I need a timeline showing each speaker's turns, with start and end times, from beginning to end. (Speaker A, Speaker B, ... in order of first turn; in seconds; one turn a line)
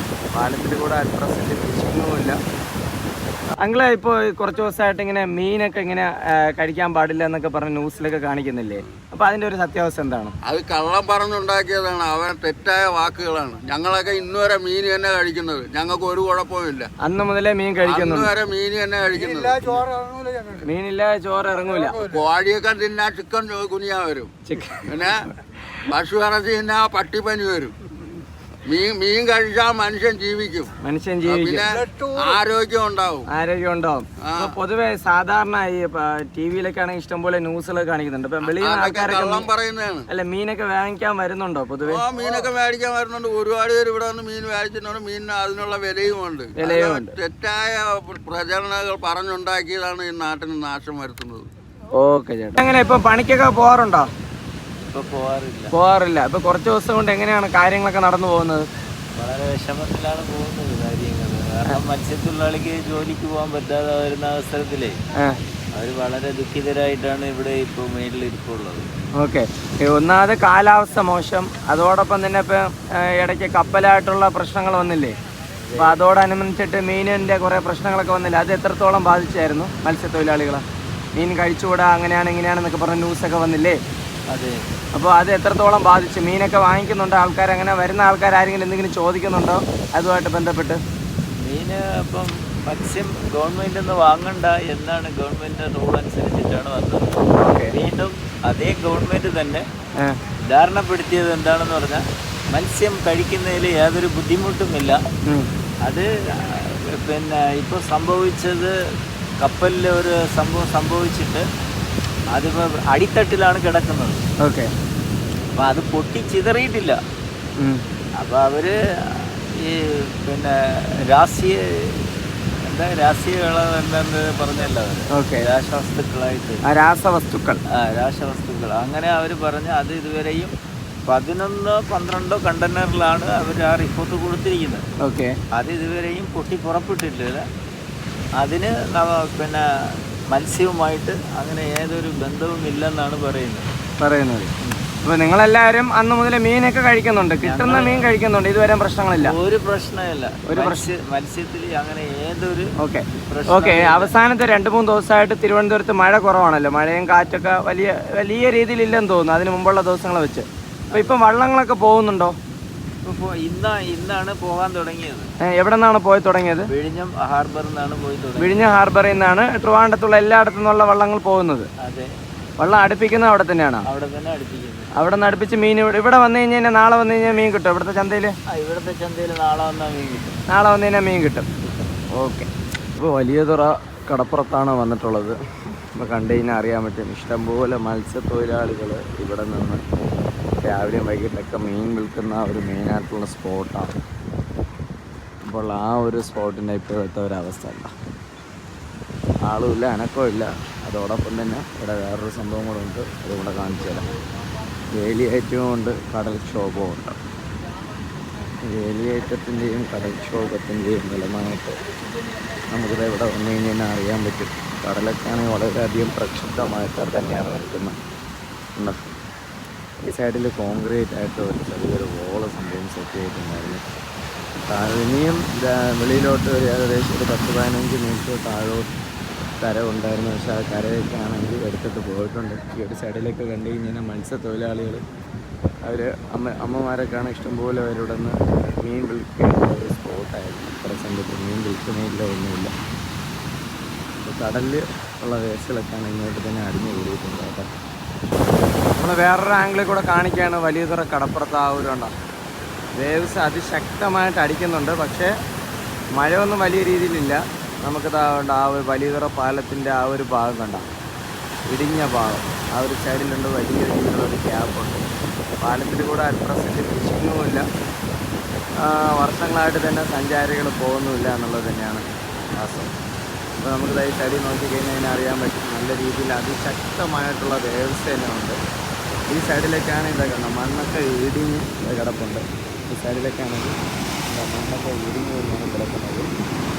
Speaker A: 0.3-2.4
Speaker A: 3.6-10.3
Speaker B: 10.5-16.9
Speaker A: 17.0-18.3
Speaker B: 17.8-19.9
Speaker A: 20.6-22.0
Speaker B: 22.0-24.3
Speaker A: 24.5-24.9
Speaker B: 24.9-25.2
Speaker B: 25.9-27.7
Speaker B: 28.7-30.7
Speaker A: 30.8-31.7
Speaker B: 31.3-33.3
Speaker A: 33.3-39.5
Speaker B: 34.2-34.5
Speaker B: 38.4-40.1
Speaker A: 40.1-42.0
Speaker B: 41.9-51.5
Speaker A: 46.6-47.1
Speaker A: 52.0-54.1
Speaker C: 54.9-55.7
Speaker A: 55.7-58.7
Speaker C: 59.2-65.0
Speaker C: 65.7-68.8
Speaker A: 69.2-75.1
Speaker C: 75.7-76.0
Speaker A: 75.8-80.6
Speaker A: 81.2-83.8
Speaker C: 84.3-84.6
Speaker A: 85.0-90.8
Speaker C: 91.4-99.7
Speaker A: 97.4-97.7
Speaker C: 100.5-105.0
Speaker C: 105.8-108.7
Speaker C: 109.4-111.5
Speaker C: 112.3-114.2
Speaker A: 114.4-114.7
Speaker C: 115.6-117.0
Speaker C: 118.2-126.6
Speaker A: 125.1-125.5
Speaker A: 126.7-127.6
Speaker C: 127.8-130.5
Speaker C: 131.1-134.8
Speaker A: 135.0-135.4
Speaker C: 135.5-137.4
Speaker C: 138.4-139.6
Speaker C: 140.3-143.7
Speaker A: 144.0-144.5
Speaker A: 145.0-149.3
Speaker C: 147.4-148.1
Speaker C: 149.2-154.1
Speaker A: 150.5-150.9
Speaker A: 152.8-162.3
Speaker C: 160.9-161.2
Speaker C: 163.0-165.3
Speaker A: 165.5-166.7
Speaker C: 166.7-168.7
Speaker A: 168.4-171.7
Speaker C: 171.8-172.1
Speaker A: 172.6-173.8
Speaker C: 173.9-174.9
Speaker A: 175.0-178.3
Speaker C: 178.5-180.3
Speaker A: 180.5-181.5
Speaker A: 182.2-185.4
Speaker A: 186.0-189.8
Speaker A: 190.6-193.9
Speaker A: 195.4-197.9
Speaker A: 199.4-204.1
Speaker A: 204.9-207.2
Speaker A: 208.7-211.8
Speaker A: 212.7-217.9
Speaker A: 220.1-223.8
Speaker A: 224.7-228.9
Speaker A: 229.6-235.0
Speaker A: 235.8-242.7
Speaker A: 244.2-247.7
Speaker A: 249.0-252.1
Speaker A: 252.9-255.3
Speaker A: 256.2-260.9
Speaker A: 261.7-265.1
Speaker A: 265.6-267.7
Speaker A: 268.8-272.1
Speaker A: 272.6-272.9
Speaker A: 273.6-278.6
Speaker A: 279.3-283.8
Speaker A: 284.3-286.3